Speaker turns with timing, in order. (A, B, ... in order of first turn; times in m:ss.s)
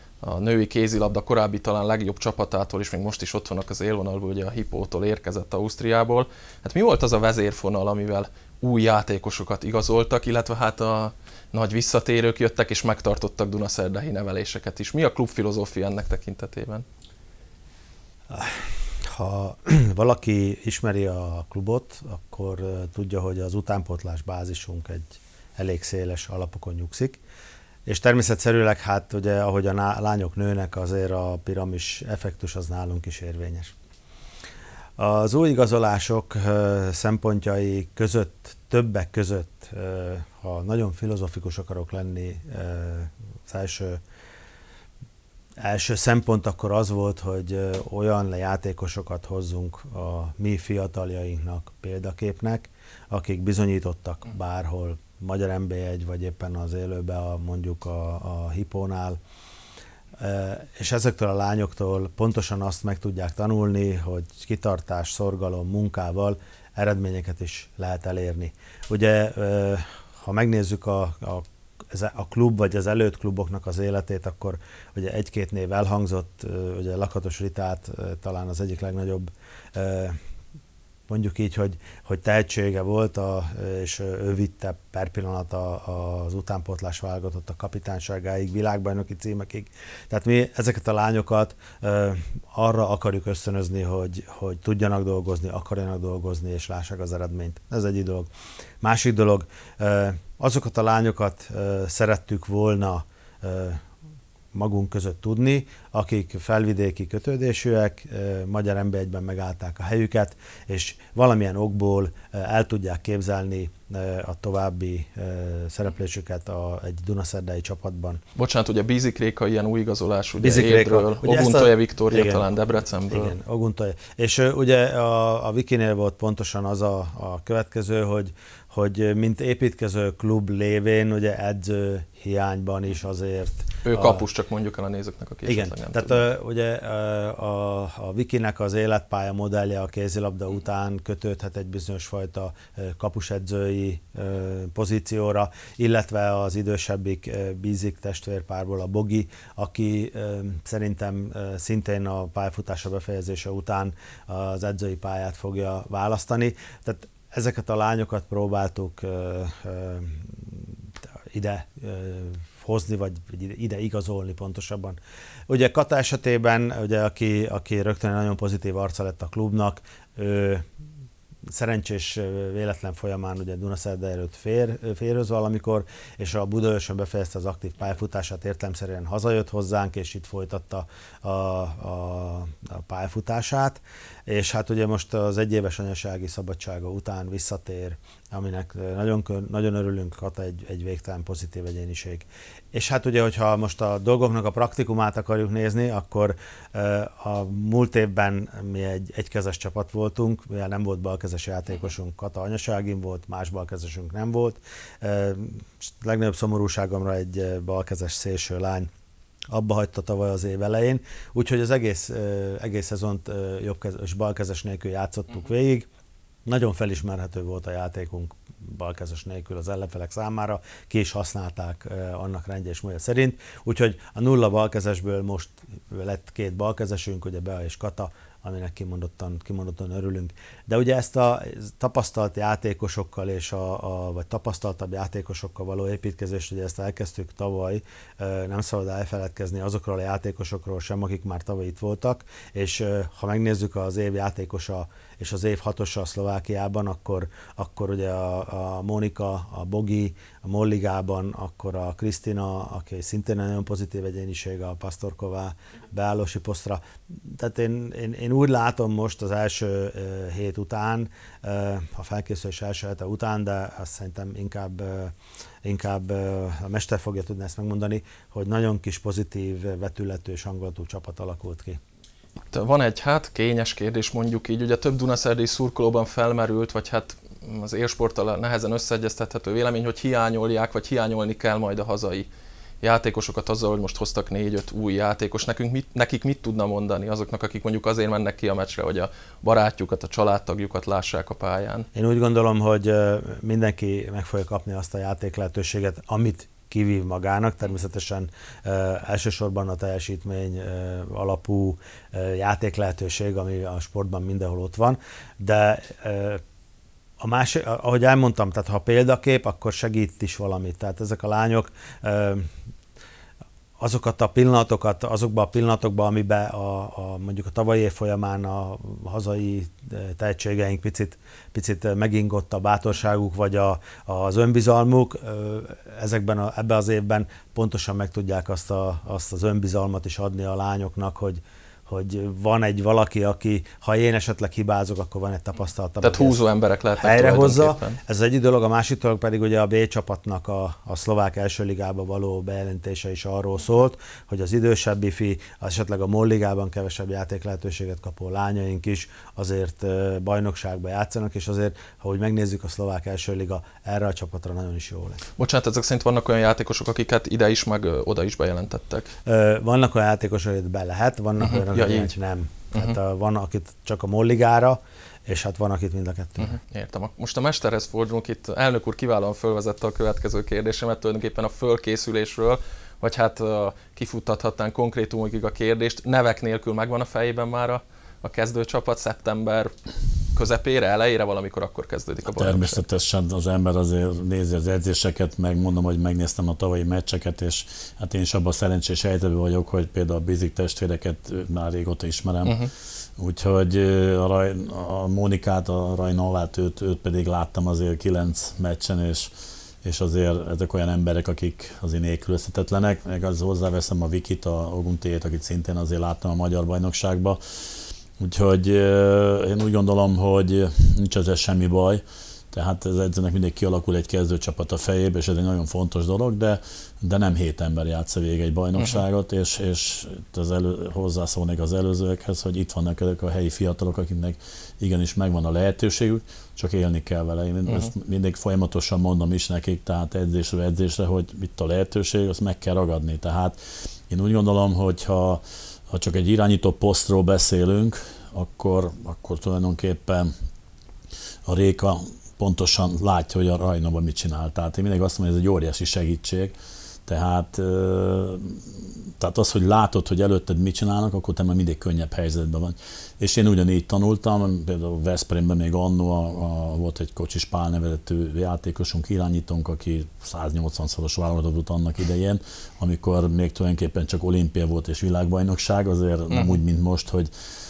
0:00.2-0:16.8 A
0:18.3-0:18.6 B
0:19.1-0:27.2 B
0:27.9-0:33.7 B
0:35.0-0:44.0 B
0:45.6-0:59.2 B
1:00.2-1:20.2 B
1:21.1-1:38.3 B
1:38.8-1:43.8 B
1:44.5-1:58.2 B
1:58.4-2:03.3 A
2:00.4-2:02.5 B
2:03.1-2:14.2 B
2:13.8-2:16.2 A
2:15.4-2:40.6 B
2:41.3-2:45.0 B
2:45.5-2:50.6 B
2:51.5-3:28.9 B
3:29.5-3:35.9 B
3:36.5-4:25.1 B
4:25.6-4:31.8 B
4:32.5-4:42.3 A
4:42.8-4:51.9 A
4:52.0-5:06.4 B
5:07.2-5:12.5 B
5:13.8-5:36.4 B
5:36.0-5:38.0 A
5:37.0-5:55.2 B
5:55.4-5:59.1 A
5:59.3-6:06.6 B
6:01.4-6:02.1 A
6:02.7-6:03.0 A
6:06.4-6:19.7 A
6:20.3-6:22.8 A
6:22.3-6:47.4 C
6:32.4-6:32.7 A
6:48.2-7:20.3 C
6:58.8-6:59.0 A
7:21.5-7:47.3 C
7:46.3-7:46.6 A